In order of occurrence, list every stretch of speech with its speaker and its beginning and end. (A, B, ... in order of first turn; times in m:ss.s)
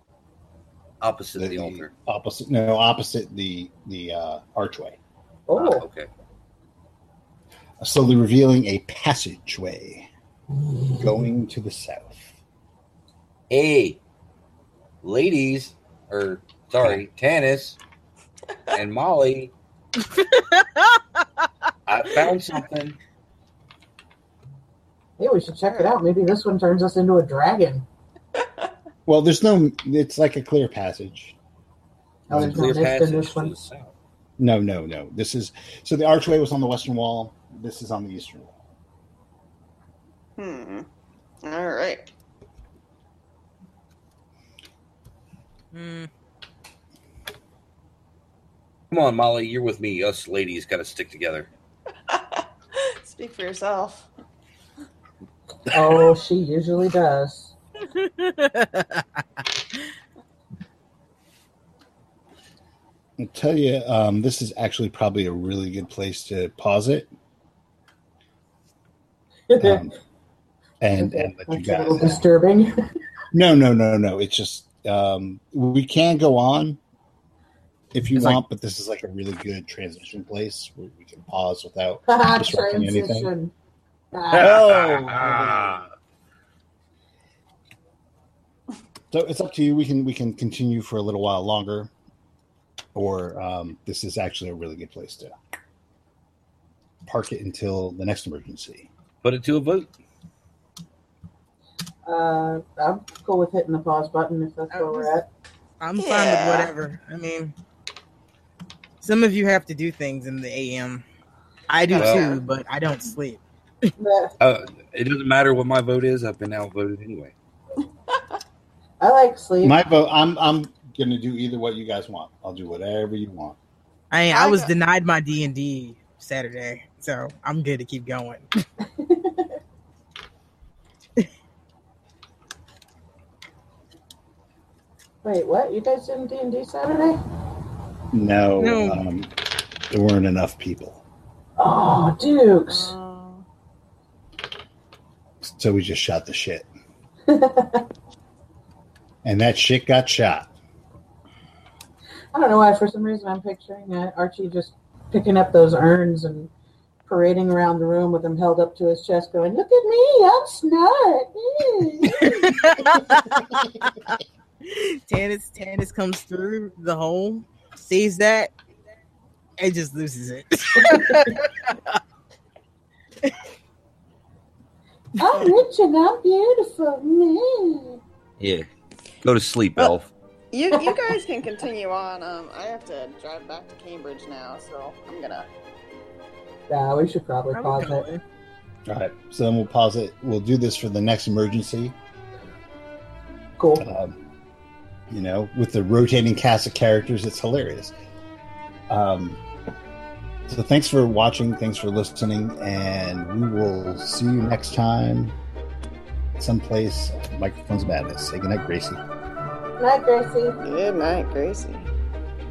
0:01.0-0:01.9 A
0:01.4-0:05.0 B
0:05.5-0:05.8 C
0:05.5-0:06.1 A
0:07.8-0:10.1 B
0:10.9-0:12.4 B
0:13.5-0:14.0 A
0:15.0-0:17.8 A
0:18.7-0:19.5 A
0:20.0-0:21.4 D
0:21.9-0:23.0 A
0:25.2-0:27.8 C
0:29.0-0:31.4 B
0:32.3-0:33.5 C
0:32.3-0:32.8 B
0:32.4-0:33.9 A
0:34.4-0:38.6 B
0:40.4-0:40.9 E
0:41.4-0:42.1 E
0:45.7-0:46.1 D
0:48.9-0:51.5 A
0:52.1-0:54.1 E
0:55.7-0:57.5 C
0:57.9-0:59.8 D
1:03.2-1:07.1 B
1:09.5-1:09.8 C
1:09.6-1:09.9 B
1:10.8-1:12.2 B
1:11.0-1:12.7 C
1:13.3-1:16.8 B
1:17.9-1:23.3 B
1:18.1-1:18.4 A
1:22.1-1:23.5 C
1:24.1-1:24.6 C
1:24.3-1:25.8 B
1:24.3-1:25.9 A
1:29.1-1:31.9 B
1:32.9-1:35.4 B
1:37.0-1:38.9 B
1:39.2-1:39.9 A
1:42.0-1:45.3 C
1:44.7-1:45.1 D
1:45.8-1:47.5 D
1:46.0-1:46.7 E
1:49.0-1:51.0 D
1:51.7-1:53.9 D
1:51.9-1:52.4 E
1:52.0-1:52.4 A
1:54.0-1:54.3 C
1:54.4-1:57.3 A
1:59.0-1:59.8 C
1:59.6-2:03.6 B
2:04.1-2:08.5 D
2:04.3-2:04.8 E
2:09.0-2:09.6 C
2:15.2-2:17.2 C
2:18.1-2:19.3 B
2:18.6-2:19.0 D
2:19.9-2:21.0 B
2:21.6-2:22.9 C
2:22.7-2:23.4 E
2:25.4-2:26.7 B
2:27.3-2:27.8 C
2:29.2-2:30.5 B
2:32.3-2:36.5 C
2:37.1-2:43.0 C
2:42.1-2:48.5 D
2:49.6-2:52.0 D
2:51.0-2:51.3 C
2:55.2-2:58.0 C
2:58.4-2:58.7 A
2:59.2-3:00.1 A
3:00.5-3:05.5 E
3:06.7-3:08.1 C
3:07.5-3:08.2 D
3:08.8-3:12.0 B
3:13.6-3:13.9 C
3:13.8-3:14.2 B
3:15.1-3:17.9 B
3:18.9-3:19.4 B
3:20.5-3:25.3 B
3:26.4-3:29.0 B
3:29.8-3:30.6 C
3:30.6-3:31.9 E